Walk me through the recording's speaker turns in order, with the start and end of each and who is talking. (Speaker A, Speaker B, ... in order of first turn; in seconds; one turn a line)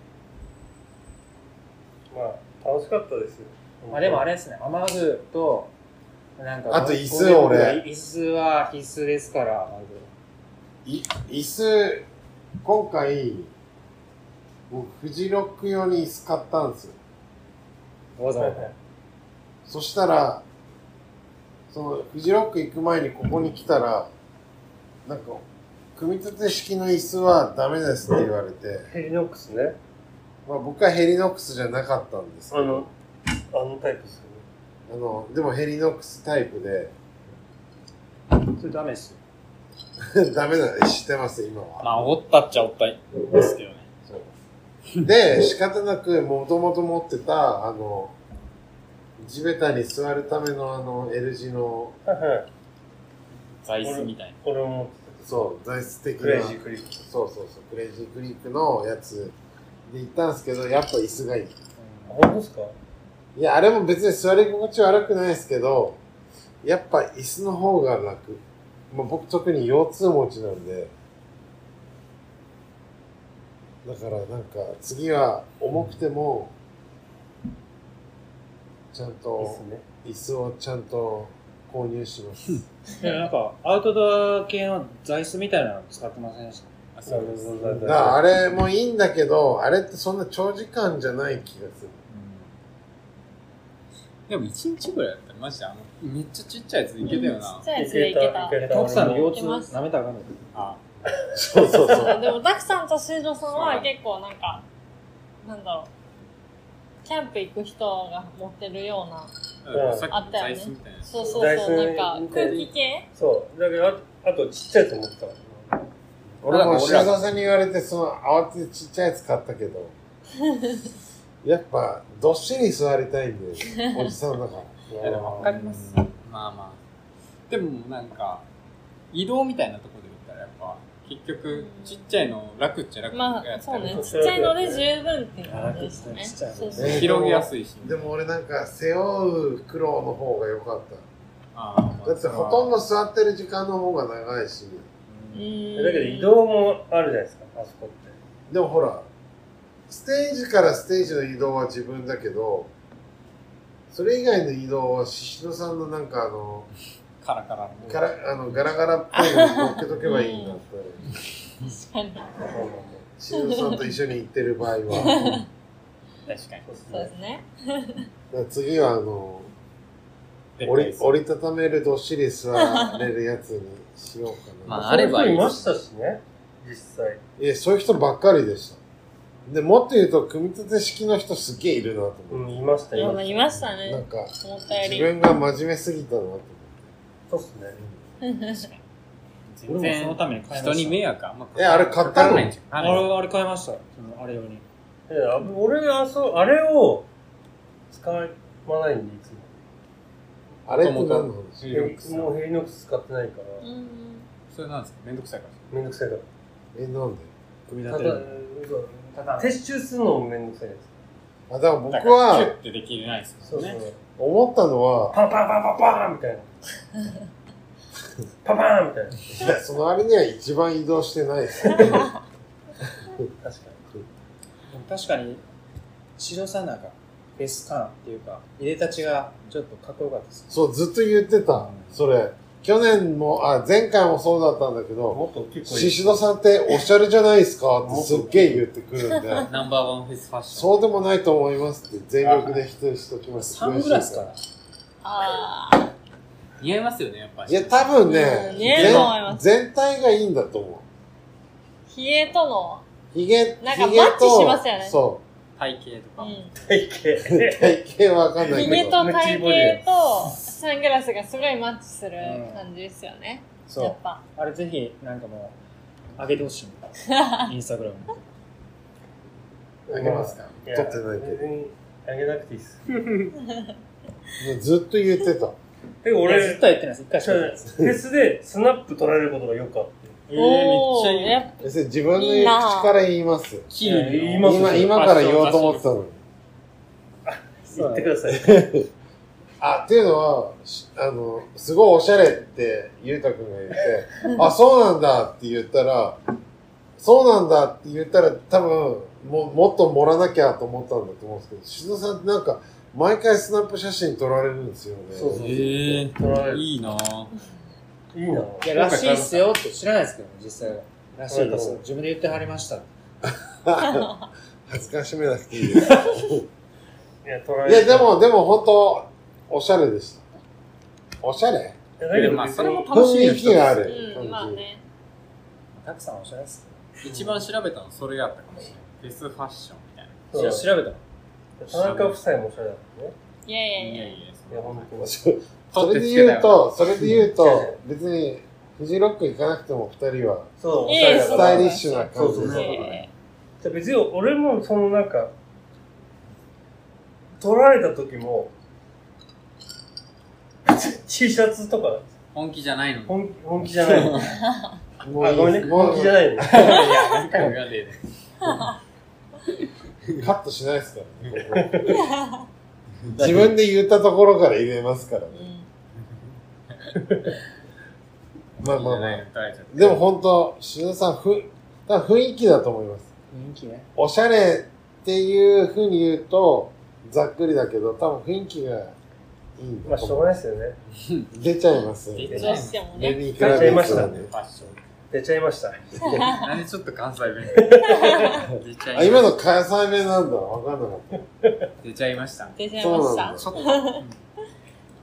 Speaker A: 2.1-4.2
Speaker B: 3.9-5.7
Speaker B: 6.4-10.1
Speaker C: 6.7-7.8
Speaker C: 10.8-12.1
Speaker C: 12.6-13.5
Speaker C: 14.7-16.9
Speaker B: 18.2-18.7
Speaker A: 18.4-18.7
Speaker C: 19.6-20.4
Speaker C: 21.7-24.1
Speaker C: 25.0-25.4
Speaker C: 25.9-28.9
Speaker A: 28.9-29.8
Speaker C: 30.4-32.9
Speaker A: 32.5-32.9
Speaker A: 33.5-34.4
Speaker C: 34.9-36.9
Speaker B: 38.5-39.2
Speaker C: 40.0-42.0
Speaker D: 41.8-43.9
Speaker C: 45.0-48.1
Speaker C: 49.2-52.0
Speaker A: 52.0-52.5
Speaker D: 53.6-54.4
Speaker A: 53.8-55.4
Speaker C: 55.2-59.3
Speaker A: 56.2-57.0
Speaker C: 59.9-61.5
Speaker B: 61.8-62.1
Speaker A: 62.1-62.7
Speaker C: 63.4-66.0
Speaker C: 66.6-70.9
Speaker C: 73.8-76.5
Speaker C: 78.9-82.7
Speaker A: 79.4-79.8
Speaker B: 83.0-86.7
Speaker D: 86.9-87.5
Speaker A: 87.1-88.2
Speaker C: 87.8-92.0
Speaker B: 92.1-92.4
Speaker D: 94.3-97.7
Speaker E: 97.0-99.7
Speaker A: 97.7-99.3
Speaker B: 98.6-100.4
Speaker D: 100.5-100.8
Speaker C: 101.3-102.3
Speaker A: 101.5-102.1
Speaker E: 101.9-104.6
Speaker D: 103.5-103.9
Speaker E: 105.4-105.9
Speaker E: 107.0-109.3
Speaker D: 109.6-111.5
Speaker A: 109.7-110.1
Speaker E: 110.1-113.0
Speaker A: 111.2-115.8
Speaker D: 112.3-112.7
Speaker C: 116.4-119.9
Speaker D: 116.4-117.2
Speaker C: 121.4-124.7
Speaker E: 123.8-124.1
Speaker A: 124.9-125.5
Speaker D: 125.0-126.8
Speaker B: 125.4-126.1
Speaker D: 127.5-128.4
Speaker D: 129.1-134.2
Speaker E: 131.5-132.1
Speaker E: 133.1-137.1
Speaker A: 133.8-134.8
Speaker B: 135.4-137.1
Speaker C: 136.7-141.0
Speaker D: 136.8-138.0
Speaker D: 141.5-142.7
Speaker C: 142.0-144.8
Speaker B: 145.1-145.5
Speaker E: 145.3-146.4
Speaker A: 145.8-148.2
Speaker C: 148.5-149.1
Speaker C: 149.9-152.7
Speaker C: 153.9-156.7
Speaker D: 157.2-158.6
Speaker C: 157.9-161.1
Speaker E: 159.1-160.6
Speaker E: 161.6-162.4
Speaker A: 162.4-163.1
Speaker C: 163.2-165.4
Speaker E: 163.3-163.9
Speaker E: 165.0-165.4
Speaker D: 166.3-166.7
Speaker A: 166.7-167.1
Speaker E: 166.9-168.1
Speaker C: 168.3-169.5
Speaker D: 170.6-171.2
Speaker C: 170.6-174.9
Speaker E: 172.5-173.0
Speaker D: 174.7-175.7
Speaker A: 174.7-177.2
Speaker C: 177.4-178.8
Speaker C: 179.5-186.9
Speaker A: 182.3-183.3
Speaker E: 182.9-185.1
Speaker A: 187.3-187.8
Speaker E: 188.2-188.6
Speaker D: 189.5-193.1
Speaker B: 189.7-191.0
Speaker C: 191.5-192.5
Speaker B: 192.8-194.6
Speaker A: 195.1-197.1
Speaker A: 197.9-199.6
Speaker C: 200.7-201.7
Speaker D: 200.7-202.4
Speaker A: 201.7-203.6
Speaker E: 203.6-204.2
Speaker D: 204.5-205.6
Speaker A: 205.7-206.2
Speaker C: 206.7-207.3
Speaker B: 207.7-208.3
Speaker A: 207.9-210.9
Speaker B: 209.1-209.5
Speaker C: 211.5-212.6
Speaker D: 211.9-213.8
Speaker A: 213.5-214.0
Speaker C: 214.2-215.2
Speaker A: 215.1-216.6
Speaker A: 218.4-219.3
Speaker C: 219.4-222.1
Speaker A: 221.6-222.1
Speaker A: 223.4-223.9
Speaker B: 224.7-225.4
Speaker B: 226.2-230.5
Speaker C: 230.5-239.5
Speaker B: 231.5-231.9
Speaker A: 235.1-236.2
Speaker A: 237.8-238.6
Speaker D: 239.4-240.9
Speaker C: 240.5-244.3
Speaker D: 242.2-242.6
Speaker B: 243.4-244.4
Speaker E: 245.0-245.9
Speaker D: 246.6-249.1
Speaker C: 247.5-250.8
Speaker E: 248.0-249.4
Speaker E: 251.9-252.8
Speaker C: 253.1-255.2
Speaker E: 253.6-254.9
Speaker D: 255.6-256.3
Speaker E: 256.2-256.5
Speaker A: 256.6-257.8
Speaker C: 257.3-259.0
Speaker E: 258.5-264.2
Speaker A: 258.6-259.8
Speaker B: 262.2-262.7
Speaker B: 263.7-265.6
Speaker B: 266.2-268.2
Speaker E: 267.1-267.5
Speaker A: 269.9-272.8
Speaker C: 269.9-271.4
Speaker C: 274.4-275.6
Speaker A: 276.0-276.6
Speaker B: 276.2-277.7
Speaker A: 277.2-280.2
Speaker D: 280.3-281.5
Speaker E: 280.3-281.6
Speaker C: 281.6-283.7
Speaker E: 282.1-282.9
Speaker D: 283.7-285.9
Speaker B: 283.8-284.4
Speaker A: 283.8-284.9
Speaker C: 284.4-286.2
Speaker A: 287.2-288.7
Speaker B: 287.7-288.1
Speaker C: 288.3-288.8
Speaker C: 289.6-296.2
Speaker C: 297.0-306.1
Speaker A: 305.1-306.6
Speaker D: 305.4-307.3
Speaker A: 308.1-308.7
Speaker B: 308.6-312.9
Speaker D: 308.7-309.4
Speaker A: 311.3-311.8
Speaker C: 313.2-314.1
Speaker C: 314.7-316.4
Speaker A: 317.2-318.1
Speaker C: 317.6-320.2
Speaker C: 321.2-321.8
Speaker A: 322.0-322.9
Speaker D: 322.1-323.9
Speaker C: 322.9-324.6
Speaker E: 323.9-324.8
Speaker B: 325.7-326.8
Speaker D: 327.0-330.5
Speaker A: 327.0-327.4
Speaker A: 330.3-330.7
Speaker B: 330.3-331.0
Speaker A: 331.6-333.1
Speaker D: 331.7-332.2
Speaker E: 333.4-334.2
Speaker D: 333.8-334.9
Speaker A: 334.5-335.1
Speaker C: 335.0-342.9
Speaker D: 335.7-336.7
Speaker A: 337.3-337.8
Speaker A: 340.6-342.8
Speaker E: 340.8-343.1
Speaker D: 342.1-343.0
Speaker A: 343.6-345.3
Speaker A: 347.4-348.5
Speaker A: 350.6-352.1
Speaker D: 352.3-354.4
Speaker A: 353.1-354.2
Speaker C: 355.0-356.7
Speaker A: 355.2-356.8
Speaker D: 356.4-358.6
Speaker C: 360.2-361.9
Speaker A: 361.4-362.0
Speaker E: 362.0-362.4
Speaker D: 363.1-363.5
Speaker C: 363.1-365.5
Speaker E: 365.3-365.6
Speaker D: 366.8-367.4
Speaker C: 368.6-373.1
Speaker D: 368.6-370.0
Speaker B: 373.3-373.9
Speaker C: 373.9-378.9
Speaker C: 379.6-380.3
Speaker A: 379.9-380.8
Speaker D: 380.9-381.3
Speaker C: 381.3-384.3
Speaker D: 382.1-384.7
Speaker A: 382.3-382.6
Speaker E: 382.3-383.3
Speaker A: 383.4-386.2
Speaker E: 386.0-386.4
Speaker D: 386.2-389.3
Speaker A: 387.5-388.4
Speaker E: 387.8-388.4
Speaker C: 388.9-391.2
Speaker D: 391.8-392.6
Speaker E: 392.6-394.0
Speaker C: 392.8-393.4
Speaker D: 393.4-394.2